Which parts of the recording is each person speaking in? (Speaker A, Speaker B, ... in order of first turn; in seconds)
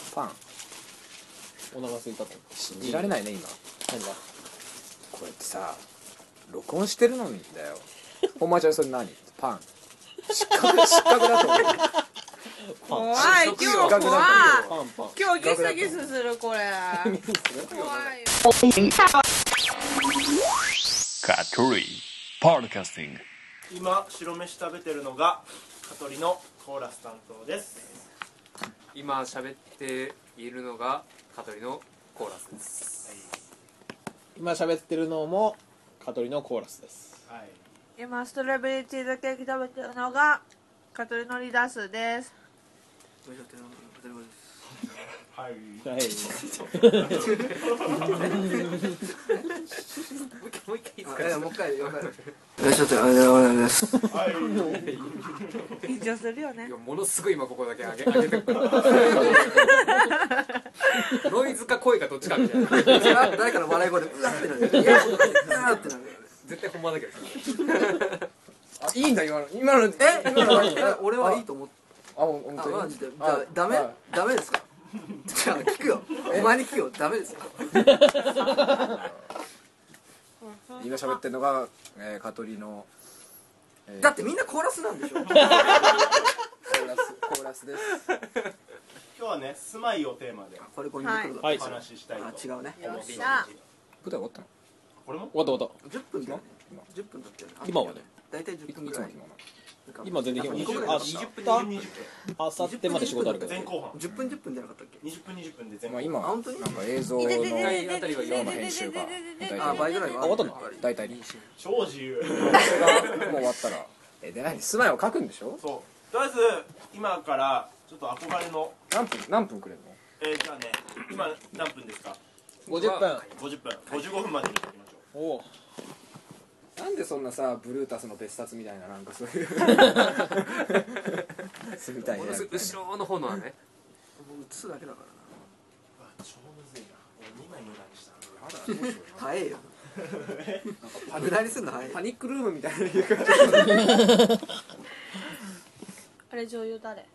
Speaker A: 0.1-0.4, 2.7-3.6, 5.1-5.8, 6.5-9.7, 10.3-11.9, 13.2-14.7, 15.4-16.1, 58.7-59.8, 64.7-65.9, 68.8-71.5, 72.2-74.0, 76.2-76.7, 78.6-79.2, 80.8-82.9, 83.9-84.2, 85.5-88.0, 94.0-94.5, 98.7-99.4, 105.9-110.2, 110.8-111.2, 112.5-115.6, 118.9-120.0, 126.8-132.8, 138.3-139.4, 140.8-144.2
Speaker B: 1.7-3.2, 3.9-4.2, 11.0-11.2, 12.7-13.3, 14.3-15.2, 17.1-17.7, 34.4-37.2, 45.8-48.9, 54.5-55.0, 78.2-78.8, 95.3-95.8, 97.6-98.0, 100.0-101.8, 102.4-103.7, 110.2-110.6, 122.7-123.3, 125.1-125.5
Speaker C: 12.9-18.5, 38.0-42.3, 55.8-56.7, 59.5-60.5, 80.4-81.1, 91.0-91.4, 92.8-93.5, 107.2-110.4, 146.3-147.1
Speaker D: 13.1-14.6, 17.6-18.2, 28.9-33.0, 50.2-52.3, 54.8-55.2, 56.6-59.9, 61.0-63.4, 64.7-65.8, 66.4-68.3, 92.8-93.5, 100.9-101.9, 107.3-108.7, 110.6-111.5, 122.7-124.3, 132.1-133.6
Speaker E: 21.2-23.2
Speaker F: 23.7-28.0, 33.0-33.4, 37.3-37.7, 44.8-48.6, 54.1-55.8, 58.7-59.3, 89.2-90.7, 91.4-93.6, 95.0-95.4, 100.4-102.1, 103.3-104.0, 105.0-106.3, 111.6-113.5, 115.6-118.8, 120.2-122.2, 123.3-125.0, 136.0-138.4, 139.9-140.8, 143.1-143.9
Speaker G: 43.2-44.5, 47.4-49.6, 51.0-54.1, 58.9-59.3, 62.6-66.2, 70.0-71.7, 72.6-74.7, 75.3-78.2, 84.0-86.2, 90.6-92.8, 95.8-99.1, 99.9-101.3, 102.6-105.0, 106.2-106.8, 109.5-110.9, 132.2-132.5, 134.2-135.4, 138.7-139.8, 140.8-142.1